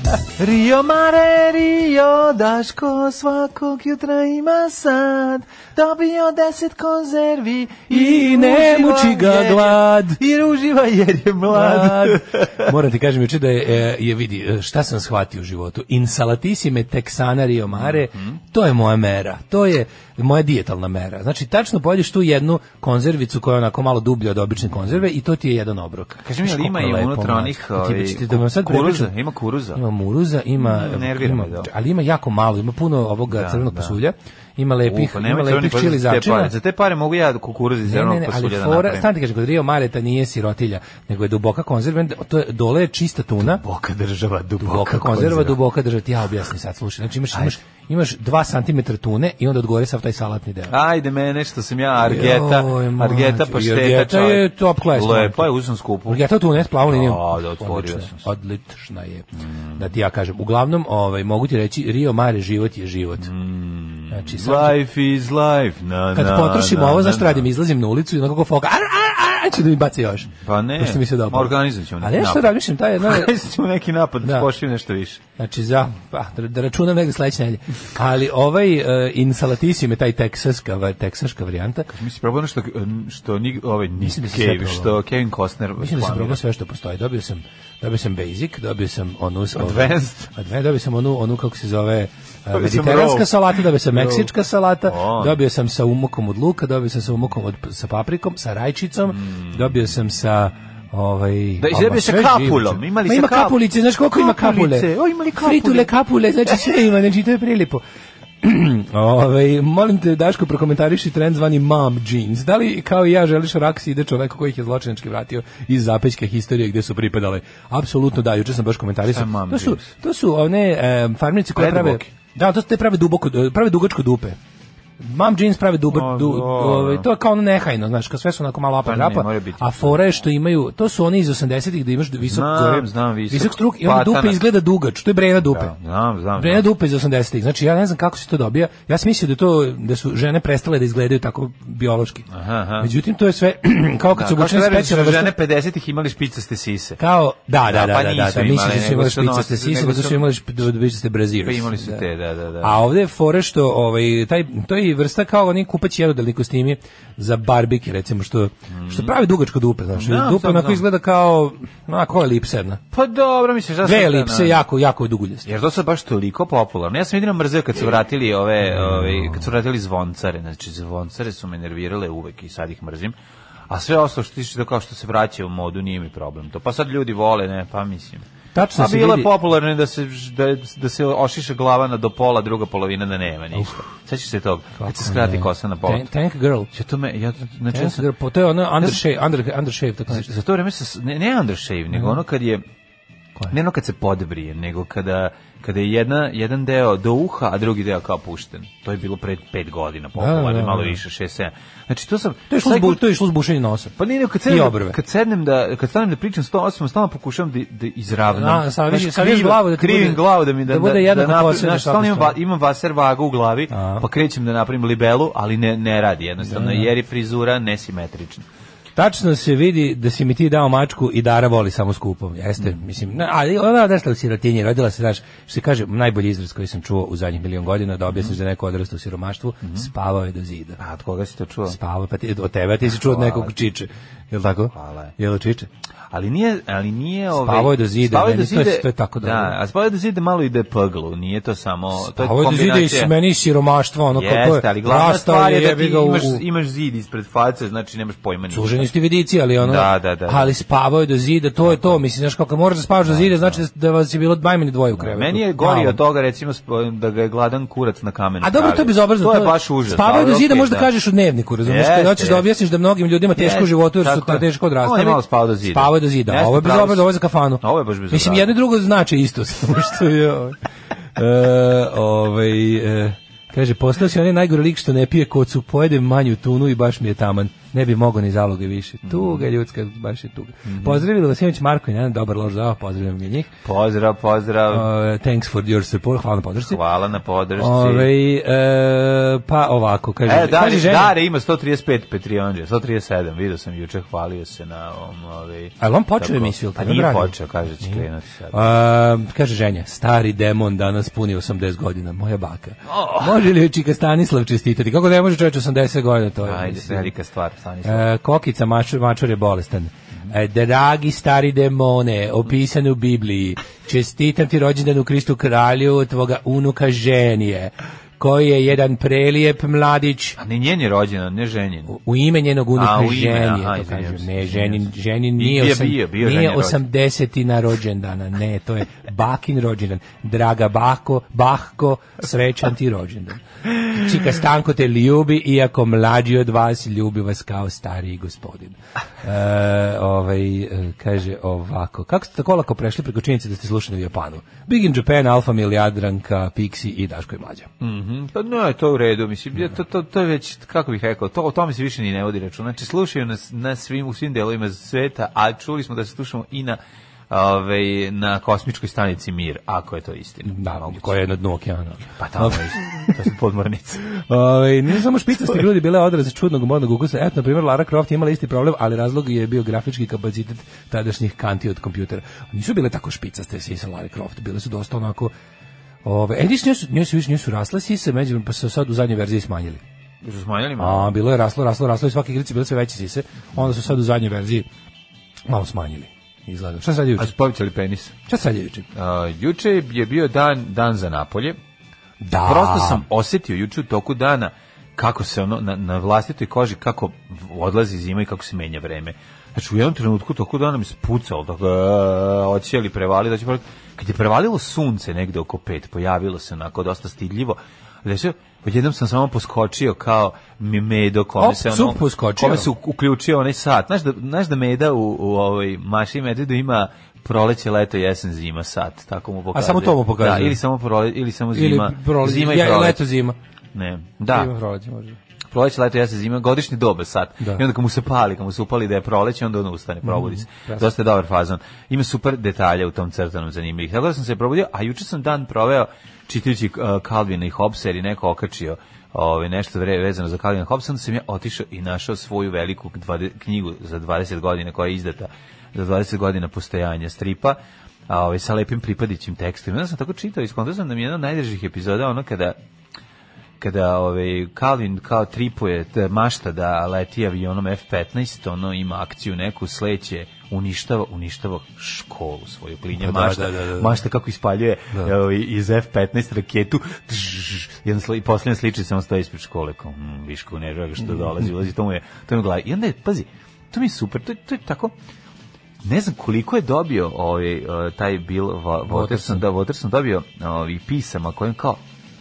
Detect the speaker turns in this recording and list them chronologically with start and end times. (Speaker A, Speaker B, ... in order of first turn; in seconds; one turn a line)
Speaker A: 0.4-12.7
Speaker B: 7.9-10.2
Speaker B: 11.5-29.1
Speaker A: 17.8-18.4
Speaker A: 26.2-29.8
Speaker B: 29.7-36.5
Speaker A: 30.6-31.7
Speaker A: 33.3-34.0
Speaker A: 34.9-39.1
Speaker B: 37.8-43.6
Speaker A: 43.6-45.6
Speaker B: 44.6-50.8
Speaker A: 50.7-56.2
Speaker B: 52.0-55.5
Speaker B: 56.1-59.2
Speaker A: 56.8-58.2
Speaker A: 59.4-59.8
Speaker B: 59.8-63.3
Speaker A: 63.2-67.5
Speaker B: 64.1-64.8
Speaker B: 66.1-73.3
Speaker A: 70.4-75.2
Speaker B: 74.2-74.5
Speaker B: 75.4-81.9
Speaker A: 81.9-86.4
Speaker B: 84.0-85.0
Speaker B: 85.8-107.8
Speaker A: 89.6-90.3
Speaker A: 92.5-94.3
Speaker A: 94.9-95.4
Speaker A: 99.1-99.7
Speaker A: 101.6-106.0
Speaker B: 108.4-124.4
Speaker A: 119.1-119.9
Speaker A: 121.5-122.1
Speaker B: 125.0-135.7
Speaker A: 125.9-127.1
Speaker A: 128.8-130.0
Speaker A: 132.2-134.4
Speaker A: 135.4-136.7
Speaker B: 136.3-142.2
Speaker A: 142.3-142.9
Speaker B: 142.8-145.3
Speaker A: 144.1-147.0
Speaker B: 147.0-152.1
Speaker A: 147.7-150.3
Speaker A: 151.4-152.8
Speaker B: 152.6-162.8
Speaker A: 158.7-159.1
Speaker A: 159.9-160.8
Speaker A: 162.9-164.6
Speaker B: 163.8-165.5
Speaker A: 165.4-173.1
Speaker B: 168.6-169.4
Speaker A: 173.7-178.2
Speaker B: 178.5-179.3
Speaker A: 178.8-186.1
Speaker B: 184.8-186.7
Speaker A: 186.7-188.1
Speaker B: 187.7-190.3
Speaker A: 190.1-192.6
Speaker B: 191.9-192.2
Speaker A: 193.5-203.1
Speaker B: 200.2-201.0
Speaker B: 202.5-205.0
Speaker A: 204.0-218.4
Speaker B: 208.3-212.3
Speaker B: 213.7-214.1
Speaker B: 216.4-216.9
Speaker B: 218.9-230.8
Speaker A: 230.8-231.8
Speaker B: 231.7-235.7
Speaker A: 233.0-233.6
Speaker A: 234.7-235.1
Speaker A: 236.1-243.1
Speaker B: 237.3-239.6
Speaker B: 242.0-246.4
Speaker A: 244.1-248.9
Speaker B: 248.5-256.0
Speaker A: 249.6-250.5
Speaker A: 251.6-252.0
Speaker A: 253.0-253.6
Speaker A: 254.9-260.9
Speaker B: 258.4-270.6
Speaker A: 261.6-262.5
Speaker A: 263.4-268.5
Speaker B: 271.1-283.5
Speaker A: 279.1-279.4
Speaker A: 280.6-281.0
Speaker A: 283.6-284.9
Speaker B: 284.7-286.8
Speaker A: 286.6-288.1
Speaker B: 287.6-291.1
Speaker A: 290.2-298.6
Speaker B: 295.8-307.1
Speaker A: 302.9-303.4
Speaker A: 306.4-308.1
Speaker B: 307.8-320.4
Speaker A: 320.4-322.0
Speaker B: 321.9-347.7
Speaker A: 322.8-324.9
Speaker A: 325.4-326.8
Speaker A: 347.8-361.1
Speaker B: 360.5-363.1
Speaker A: 362.2-364.1
Speaker B: 364.1-375.3
Speaker B: 376.0-379.8
Speaker A: 380.2-381.1
Speaker B: 380.8-384.7
Speaker B: 385.5-387.3
Speaker A: 387.2-388.1
Speaker B: 388.2-388.9
Speaker A: 388.9-391.6
Speaker B: 392.2-393.0
Speaker A: 392.4-423.0
Speaker B: 411.4-412.7
Speaker B: 419.5-420.6
Speaker B: 421.5-423.4
Speaker A: 423.7-424.5
Speaker B: 424.3-425.2
Speaker A: 425.5-452.6
Speaker B: 430.1-430.8
Speaker A: 453.6-474.9
Speaker B: 462.9-463.9
Speaker A: 475.8-481.8
Speaker B: 478.9-479.4